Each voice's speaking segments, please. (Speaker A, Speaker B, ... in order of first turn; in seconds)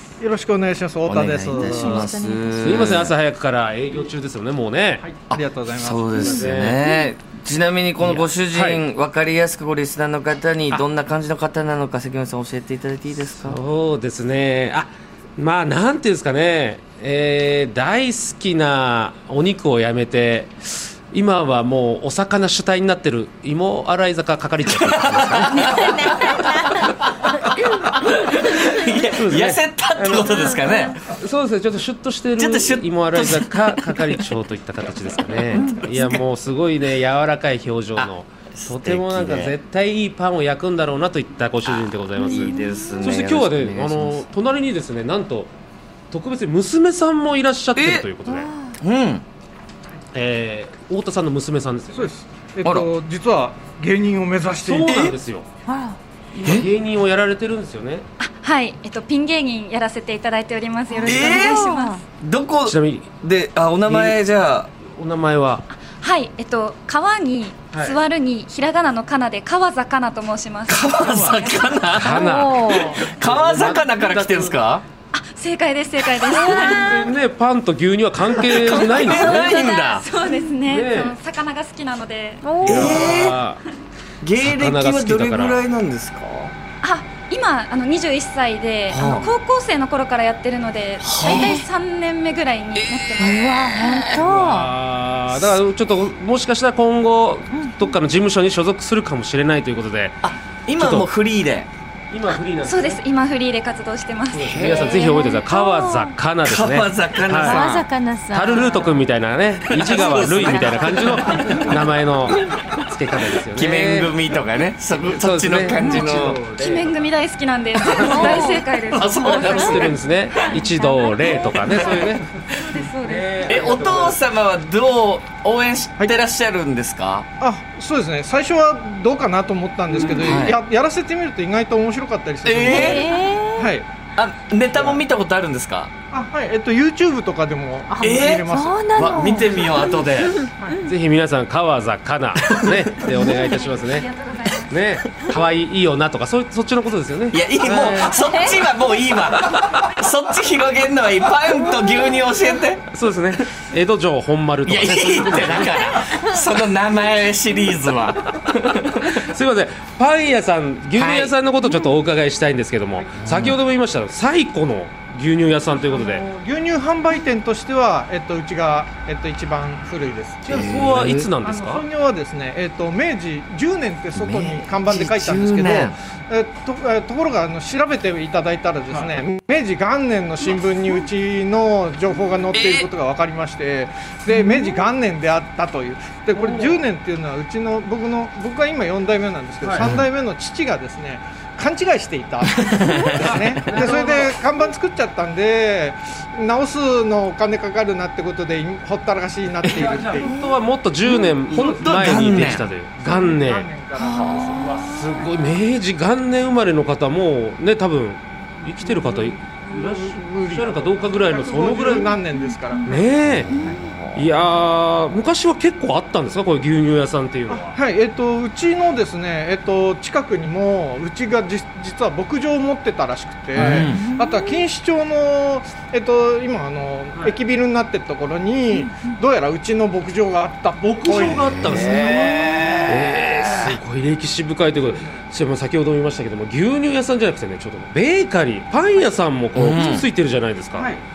Speaker A: 0.2-2.1, 5.0-6.2, 51.9-55.2, 127.4-133.9, 136.1-139.2, 165.7-170.4, 171.4-200.3, 203.0-204.9, 209.7-213.7, 217.5-232.1
Speaker B: 1.1-3.1, 5.3-13.6, 24.7-31.0, 32.4-34.3, 35.3-36.2, 38.0-39.5, 41.7-44.3, 47.7-48.1, 48.8-49.2, 52.6-52.9, 61.0-61.6, 62.2-64.7, 70.7-74.8, 78.3-80.1, 82.6-83.4, 84.2-86.5, 88.9-89.3, 91.0-91.6, 93.0-94.2, 100.2-101.7, 104.4-105.2, 106.4-107.9, 109.7-111.8, 113.5-116.4, 117.8-119.9, 121.6-122.1, 123.5-127.3, 130.0-130.6, 132.4-133.1, 134.2-135.9, 138.0-140.4, 142.5-143.3, 147.3-152.8, 154.7-159.2, 160.9-161.3, 163.2-163.6, 170.5-171.3, 174.2-175.9, 182.5-182.9, 192.7-194.0, 199.6-200.4, 201.1-202.7, 204.0-204.7, 213.3-214.3, 223.6-224.0, 231.1-233.8, 239.6-240.1
Speaker C: 1.5-2.8, 25.6-26.9, 30.3-30.9, 55.7-56.0, 61.4-62.0, 72.1-73.0, 76.3-77.1, 79.0-79.8, 82.4-82.9, 91.3-91.7, 93.2-94.8, 97.5-97.9, 105.0-106.2, 107.4-109.0, 109.8-111.7, 118.1-118.6, 132.6-133.8, 138.5-139.5, 148.1-148.6, 204.6-205.3, 223.9-224.6, 228.8-229.1
Speaker D: 2.6-5.1, 6.2-6.8, 8.0-8.8, 13.3-25.9, 29.0-45.5, 46.1-48.5, 50.1-52.1, 54.6-55.5, 56.4-58.0, 62.6-63.1, 63.9-64.2, 64.8-65.7, 67.7-68.0, 71.9-74.6, 76.4-79.6, 80.7-81.2, 82.6-83.6, 84.4-85.6, 94.3-100.2, 100.8-101.1, 102.1-103.0, 104.3-107.7, 108.3-114.1, 114.9-117.0, 119.2-122.2, 123.0-124.2, 140.8-144.1, 144.6-148.2, 152.9-156.1, 159.0-166.2, 170.4-171.8, 186.3-186.8, 189.6-189.9, 193.1-194.3, 199.7-203.7, 204.4-212.2, 212.8-213.5, 214.1-217.8, 223.6-223.9, 230.8-240.9
Speaker E: 58.2-62.0, 65.8-71.8, 75.1-77.0, 79.1-83.2, 86.8-93.4, 102.6-105.0, 116.6-121.8, 122.5-123.5, 132.7-133.0, 143.3-144.7